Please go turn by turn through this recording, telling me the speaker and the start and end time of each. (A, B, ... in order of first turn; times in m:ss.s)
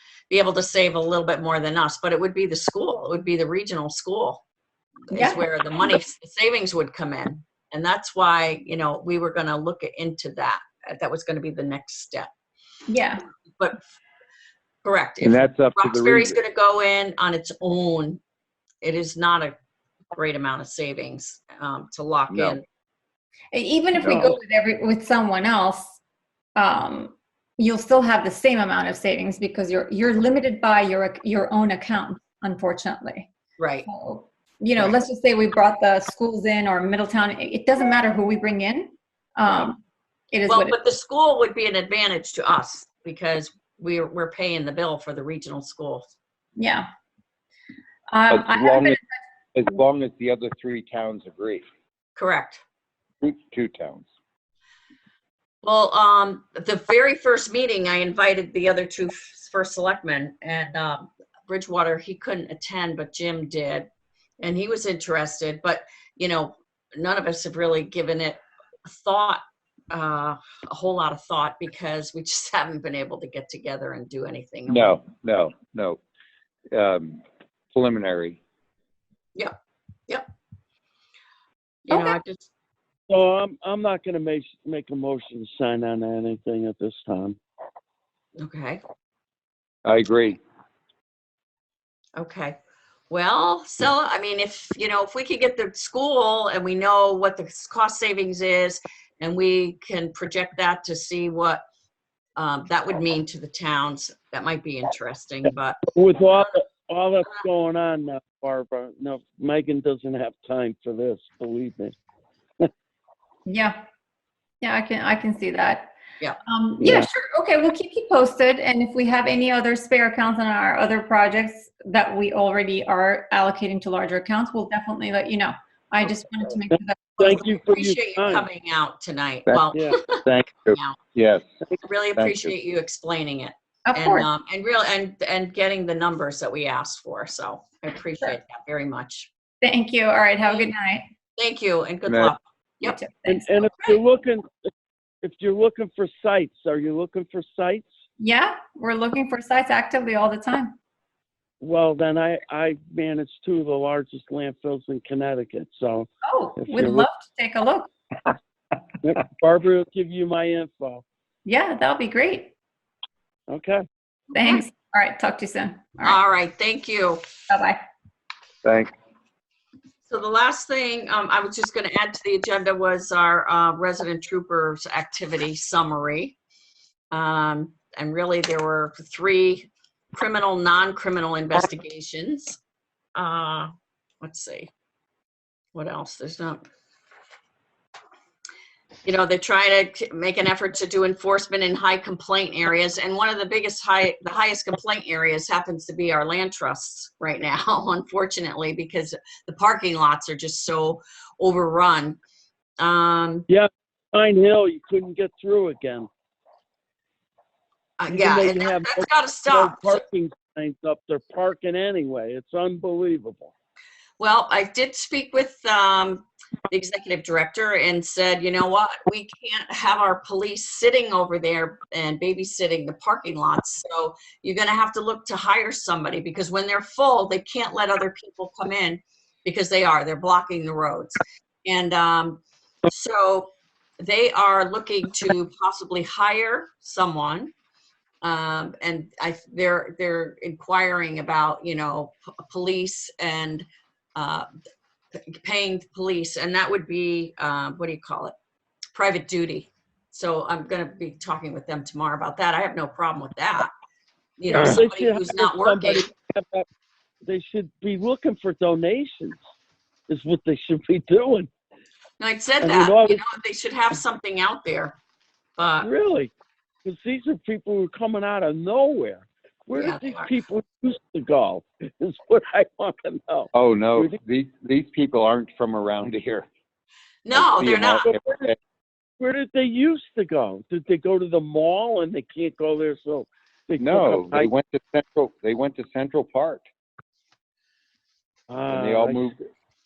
0:00.3-0:04.4 A
0:05.1-0:12.3 A
0:05.1-0:06.0 B
0:12.9-0:13.2 B
0:14.8-0:18.2 A
0:15.2-0:16.4 C
0:18.8-0:19.6 A
0:20.1-0:22.6 A
0:22.3-0:22.6 C
0:23.5-0:26.0 B
0:24.0-0:24.4 C
0:26.6-0:33.3 B
0:33.6-0:33.9 A
0:33.9-0:39.8 B
0:40.3-0:40.8 B
0:40.5-0:46.1 A
0:46.6-0:46.9 B
0:48.1-0:49.1 B
0:48.3-0:49.0 C
0:49.6-0:51.6 C
0:52.2-0:52.6 A
0:53.2-0:54.1 C
0:55.6-1:03.9 A
1:04.4-1:15.0 A
1:14.7-1:16.0 C
1:16.7-1:18.4 C
1:21.9-1:22.5 A
1:21.9-1:22.2 B
1:23.1-1:27.4 D
1:28.4-1:28.8 A
1:29.8-1:30.4 C
1:32.2-1:32.6 A
1:33.1-1:41.6 A
1:42.4-1:46.5 A
1:46.0-1:52.0 D
1:53.5-1:53.8 B
1:54.6-1:55.9 B
1:56.5-2:07.2 B
2:06.7-2:08.5 D
2:07.2-2:11.0 A
2:09.7-2:10.4 D
2:10.3-2:11.4 C
2:11.8-2:19.3 A
2:12.2-2:12.5 C
2:13.9-2:14.3 B
2:19.6-2:21.1 B
2:21.4-2:23.0 A
2:22.1-2:22.3 C
2:22.8-2:23.6 B
2:23.3-2:24.5 D
2:25.2-2:27.9 D
2:28.2-2:30.8 B
2:31.6-2:37.1 D
2:36.2-2:37.9 B
2:39.0-2:41.0 D
2:41.4-2:42.5 B
2:43.5-2:43.8 D
2:44.3-2:46.2 B
2:44.4-2:44.6 A
2:46.0-2:47.2 A
2:47.5-2:47.8 B
2:48.6-2:48.9 C
2:50.1-2:56.4 A
2:57.1-3:02.6 A
3:03.2-3:03.7 A
3:04.2-3:04.7 A
3:05.7-3:06.6 A
3:09.0-3:22.2 A
3:22.8-3:23.5 A
3:23.5-3:26.1 D
3:28.0-3:30.0 A
3:28.1-3:33.5 D
3:34.2-3:57.5 A
3:58.2-4:04.5 A
4:05.2-4:08.4 A
4:09.0-4:13.7 A
4:14.4-4:16.1 A
4:14.5-4:16.7 D
4:17.3-4:19.4 D
4:20.1-4:21.5 D
4:22.2-4:25.0 A
4:22.6-4:23.2 D
4:25.6-4:25.9 A
4:25.8-4:26.3 D
4:26.8-4:34.2 D
4:29.8-4:30.3 A
4:33.5-4:36.5 C
4:37.2-4:38.1 A
4:37.3-4:38.6 C
4:38.0-4:38.5 D
4:39.2-4:44.5 D
4:43.8-4:46.6 C
4:48.5-4:49.3 D
4:48.7-4:49.4 C